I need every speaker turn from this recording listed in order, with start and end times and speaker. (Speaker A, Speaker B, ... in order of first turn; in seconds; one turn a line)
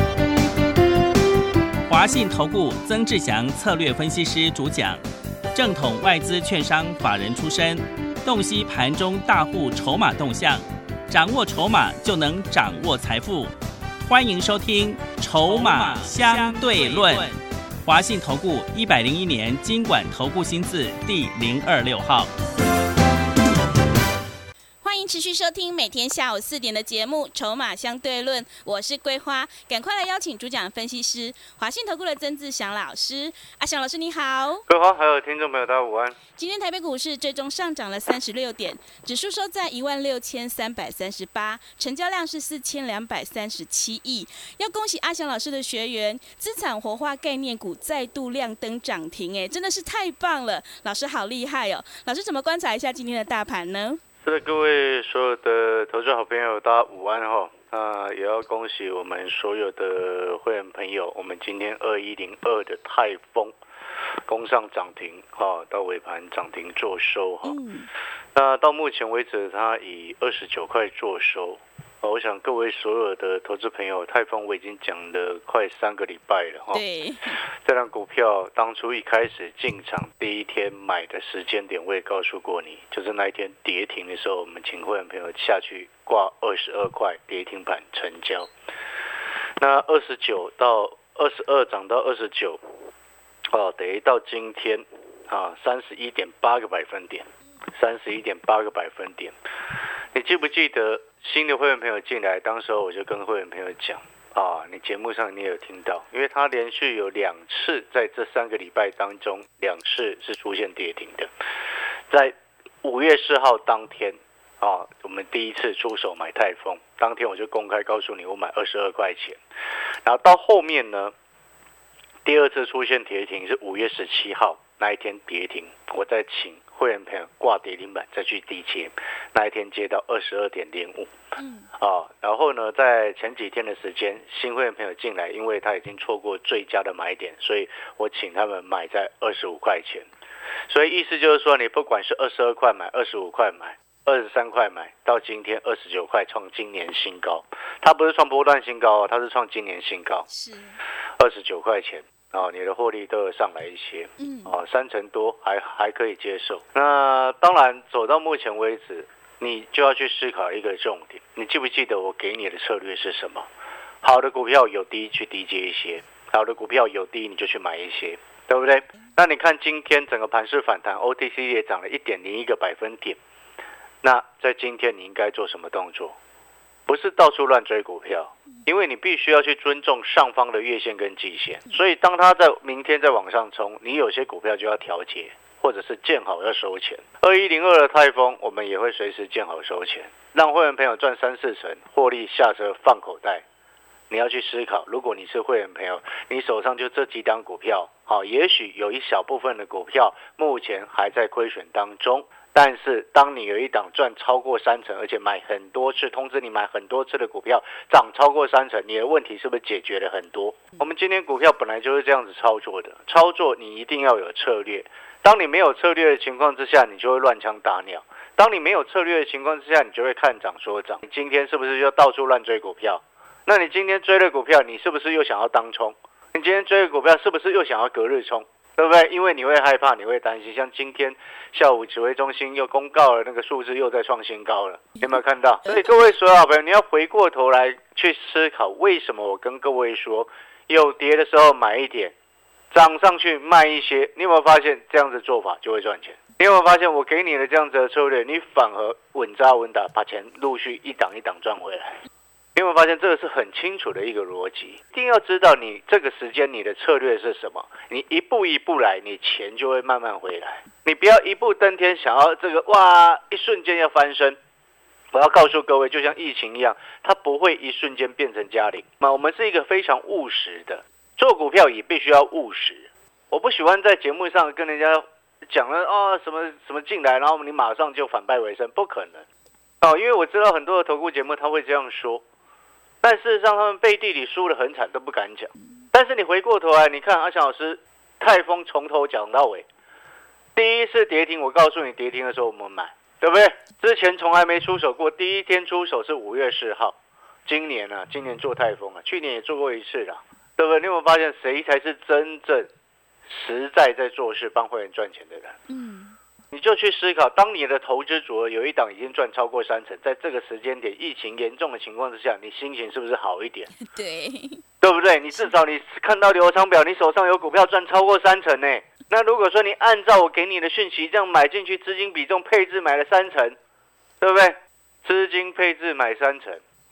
Speaker A: 1.9-5.0
Speaker A: 5.5-13.5
Speaker A: 14.1-22.3
Speaker B: 24.8-34.6
Speaker C: 34.7-36.2
Speaker B: 36.4-54.0
Speaker C: 54.2-63.5
Speaker C: 64.3-67.6
Speaker B: 67.4-67.9
Speaker C: 68.3-76.8
Speaker B: 76.7-77.4
Speaker C: 77.6-88.5
Speaker C: 89.6-92.6
Speaker C: 93.5-99.3
Speaker C: 100.1-111.3
Speaker C: 112.1-119.4
Speaker C: 120.0-121.1
Speaker C: 122.2-131.1
Speaker B: 131.4-131.7
Speaker C: 131.8-140.1
Speaker C: 140.7-150.2
Speaker B: 150.3-150.8
Speaker C: 151.2-163.5
Speaker B: 154.2-154.5
Speaker C: 164.0-173.2
Speaker C: 174.0-176.2
Speaker C: 176.9-193.4
Speaker C: 194.1-242.2
Speaker C: 242.7-252.0
Speaker C: 252.6-264.4
Speaker C: 265.1-279.3
Speaker C: 279.8-282.2
Speaker C: 283.0-289.7
Speaker C: 290.6-302.7
Speaker C: 303.3-305.6
Speaker B: 305.7-306.2
Speaker C: 306.5-313.7
Speaker B: 313.8-314.6
Speaker C: 314.8-323.6
Speaker C: 324.2-326.6